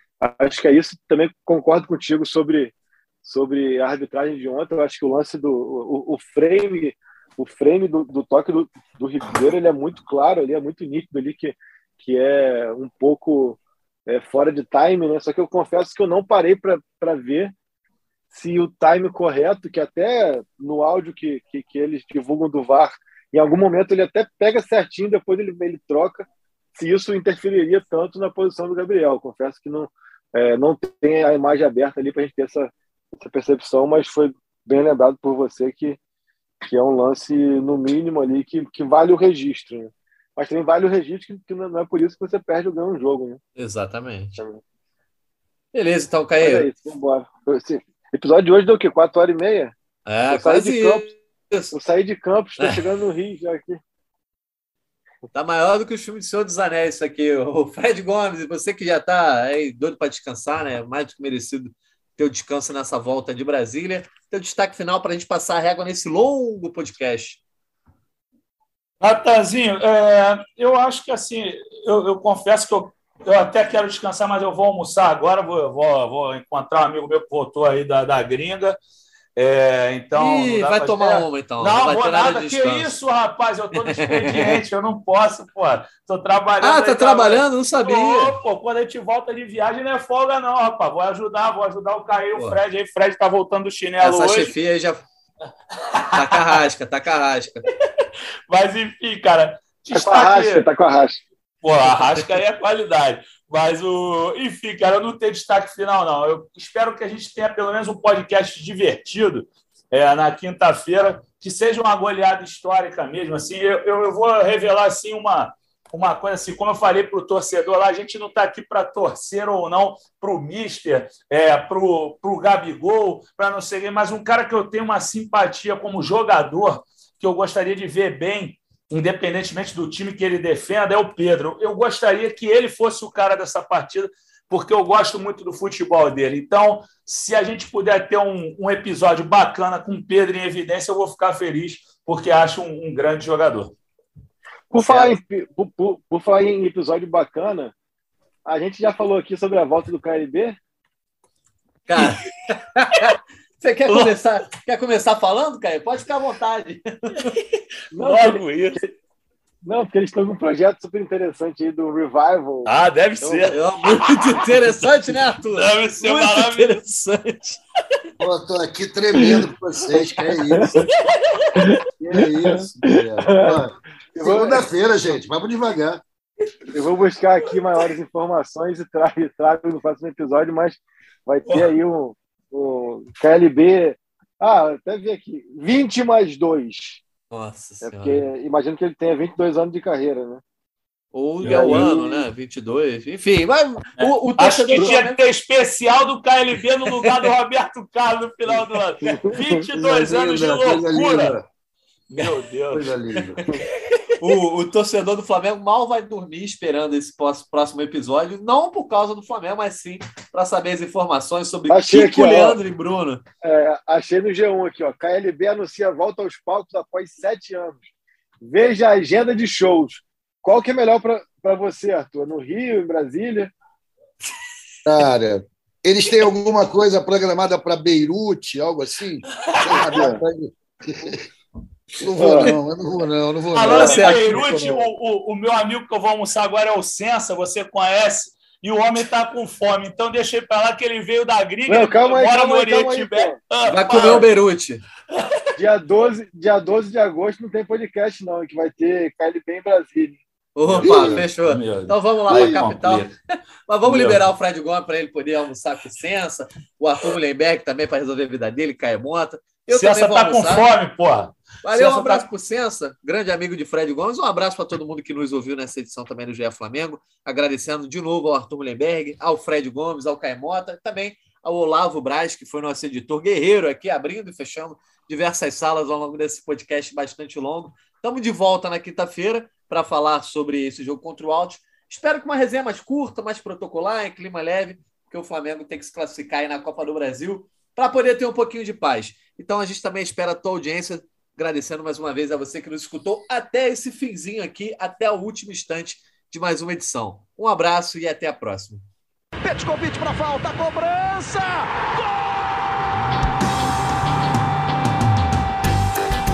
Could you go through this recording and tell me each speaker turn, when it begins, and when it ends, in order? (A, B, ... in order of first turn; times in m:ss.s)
0:00.2-0:17.5 A
0:18.3-0:36.0 A
0:36.6-0:43.4 A
0:43.6-0:44.4 B
0:45.7-0:46.7 B
0:46.4-0:49.7 A
0:50.1-0:51.8 B
0:50.3-0:51.1 A
0:51.7-0:53.8 A
0:55.3-1:07.4 B
1:09.0-1:18.8 C
1:19.4-1:34.5 C
1:20.2-1:23.0 B
1:23.8-1:24.6 B
1:26.6-1:28.3 B
1:32.3-1:32.6 B
1:34.0-1:35.0 B
1:36.1-1:37.7 B
1:38.5-1:40.7 C
1:39.9-1:41.2 A
1:41.6-2:23.7 C
2:24.7-2:27.7 A
2:24.8-2:25.2 B
2:28.5-2:30.6 A
2:31.9-2:37.4 B
2:33.9-2:34.1 C
2:37.9-2:38.4 A
2:38.0-2:38.9 C
2:39.6-2:43.5 A
2:42.7-2:46.8 C
2:43.5-2:47.6 B
2:48.2-2:50.8 D
2:49.2-2:49.4 A
2:50.2-2:50.8 A
2:50.9-2:51.4 C
2:51.6-2:53.6 A
2:52.0-2:56.0 D
2:54.2-2:54.7 A
2:56.7-3:07.0 A
3:07.3-3:08.2 B
3:07.8-3:10.4 A
3:11.1-3:15.2 B
3:11.4-3:12.3 A
3:11.4-3:11.9 C
3:14.0-3:21.4 C
3:17.0-3:17.3 B
3:19.0-3:19.6 A
3:19.7-3:21.4 D
3:22.1-3:24.0 C
3:22.7-3:23.4 D
3:24.2-3:33.2 B
3:31.7-3:32.6 A
3:33.4-3:37.8 A
3:38.4-3:43.5 A
3:44.8-3:51.2 D
3:50.0-3:50.2 A
3:51.9-3:54.0 D
3:52.2-3:52.5 A
3:53.5-4:04.3 C
3:53.6-3:54.5 B
3:53.7-3:54.8 A
4:01.7-4:03.4 A
4:03.7-4:04.8 B
4:05.6-4:10.2 A
4:10.6-4:13.2 B
4:10.7-4:13.1 C
4:10.8-4:11.1 A
4:12.3-4:12.6 A
4:13.7-4:20.7 B
4:13.8-4:14.2 C
4:19.7-4:22.3 C
4:21.6-4:58.8 B
4:59.4-5:02.2 E